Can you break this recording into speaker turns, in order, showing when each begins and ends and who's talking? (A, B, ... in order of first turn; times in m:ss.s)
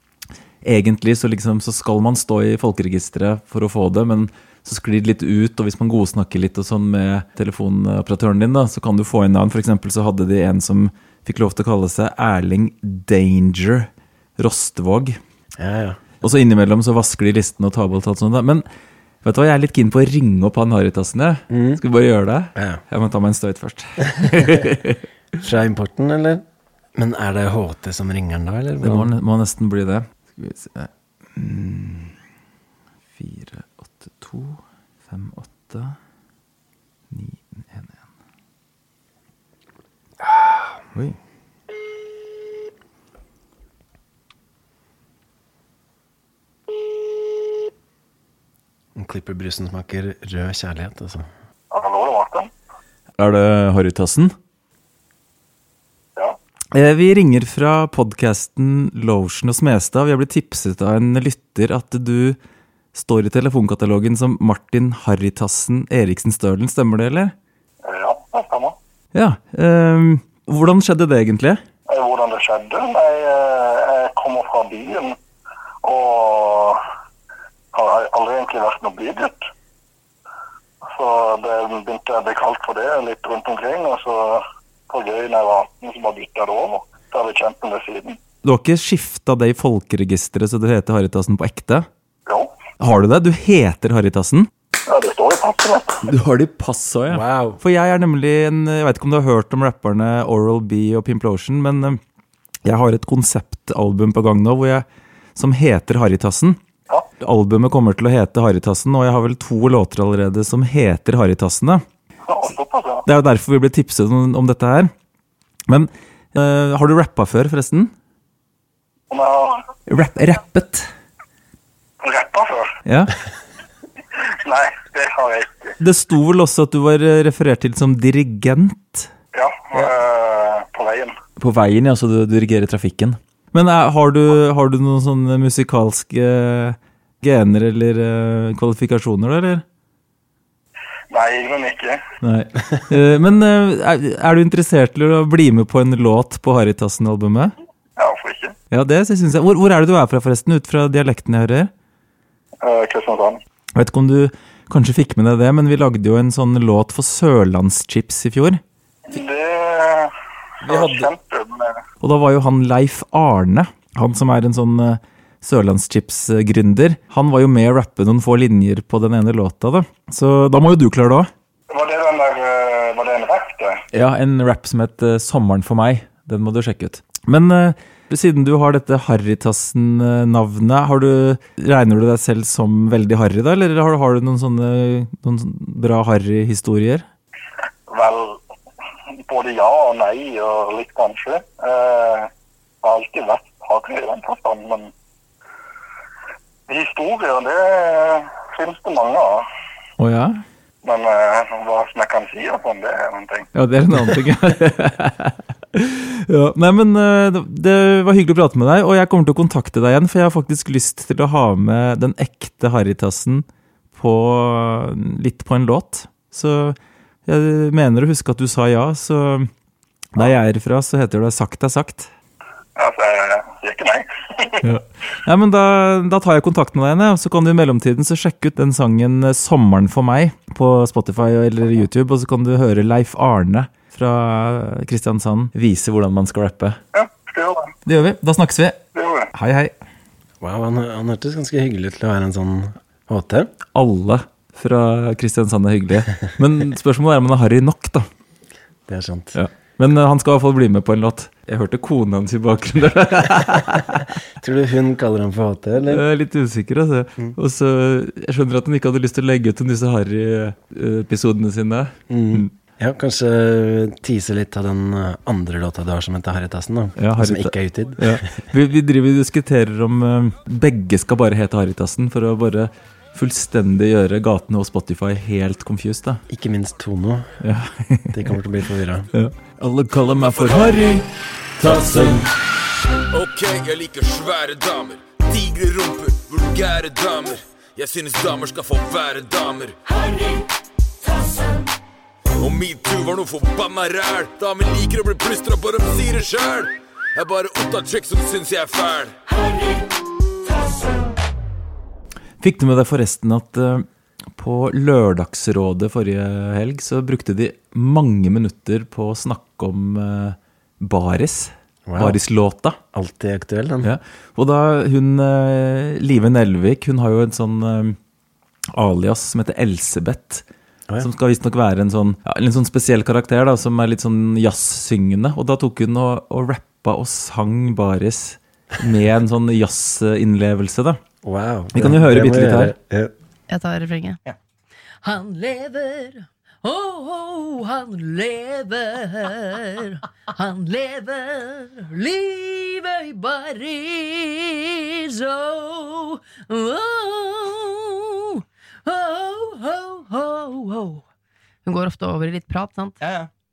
0:00.6-0:15.2 A
0:15.6-0:16.1 B
0:16.2-0:18.6 A
0:19.2-0:25.0 A
0:21.5-0:21.8 B
0:22.5-0:22.8 B
0:25.4-0:26.4 B
0:26.9-0:29.1 B
0:28.8-0:32.2 A
0:33.2-0:36.0 A
0:37.1-0:38.0 A
0:40.2-0:40.8 B
0:49.0-0:51.3 B
0:51.7-0:52.5 C
0:53.2-0:54.3 A
0:56.7-1:02.4 A
1:02.9-1:07.3 A
1:07.8-1:08.7 C
1:09.1-1:11.6 A
1:11.9-1:15.2 C
1:15.8-1:16.8 C
1:17.7-1:19.4 C
1:20.9-1:28.2 C
1:28.4-1:31.9 A
1:32.8-1:34.5 A
1:34.9-1:36.0 C
1:36.0-1:42.0 A
1:37.1-1:37.6 B
1:42.6-1:46.6 A
1:47.2-1:51.8 A
1:52.3-1:53.0 C
1:53.0-1:54.9 A
1:55.7-1:57.9 A
1:59.1-1:59.6 C
1:59.9-2:00.9 A
2:02.0-2:02.8 C
2:02.8-2:03.1 A
2:04.2-2:05.7 C
2:05.8-2:09.1 A
2:09.3-2:11.1 C
2:11.4-2:19.6 A
2:21.1-2:22.0 C
2:22.2-2:27.5 A
2:28.0-2:28.5 C
2:28.7-2:31.7 A
2:32.6-2:33.4 C
2:33.7-2:38.6 A
2:39.1-2:40.1 C
2:40.6-2:41.1 A
2:40.6-2:41.8 C
2:42.0-2:51.3 A
2:51.7-2:53.8 C
2:53.9-3:07.1 A
3:07.9-3:08.4 C
3:09.2-3:12.3 C
3:12.8-3:14.9 C
3:16.7-3:19.4 C
3:20.0-3:20.4 A
3:20.8-3:23.5 C
3:23.5-3:39.5 A
3:40.1-3:42.1 A
3:42.8-3:44.6 C
3:44.6-3:56.8 A
3:56.9-3:57.7 C
3:57.8-3:58.8 A
3:58.9-3:59.3 C
3:59.3-3:59.7 A
4:00.4-4:03.5 B
4:03.7-4:08.1 A
4:08.9-4:09.3 B
4:09.3-4:14.0 A
4:14.4-4:16.0 B
4:15.9-4:22.5 A
4:22.1-4:28.3 B
4:27.0-4:36.2 A
4:36.3-4:37.4 B
4:37.4-4:38.4 A
4:38.1-4:39.1 B
4:39.1-4:41.0 A
4:40.4-4:40.7 D
4:41.6-4:42.3 A
4:43.1-4:49.8 D
4:52.4-4:59.2 D
5:02.4-5:12.8 A
5:11.8-5:12.2 B
5:12.9-5:13.9 B
5:13.8-5:18.0 A
5:18.7-5:20.4 A
5:21.0-5:31.0 A
5:31.2-5:33.1 B
5:31.7-5:32.7 A
5:33.5-5:34.2 E
5:35.0-5:51.0 E
5:51.6-5:53.3 E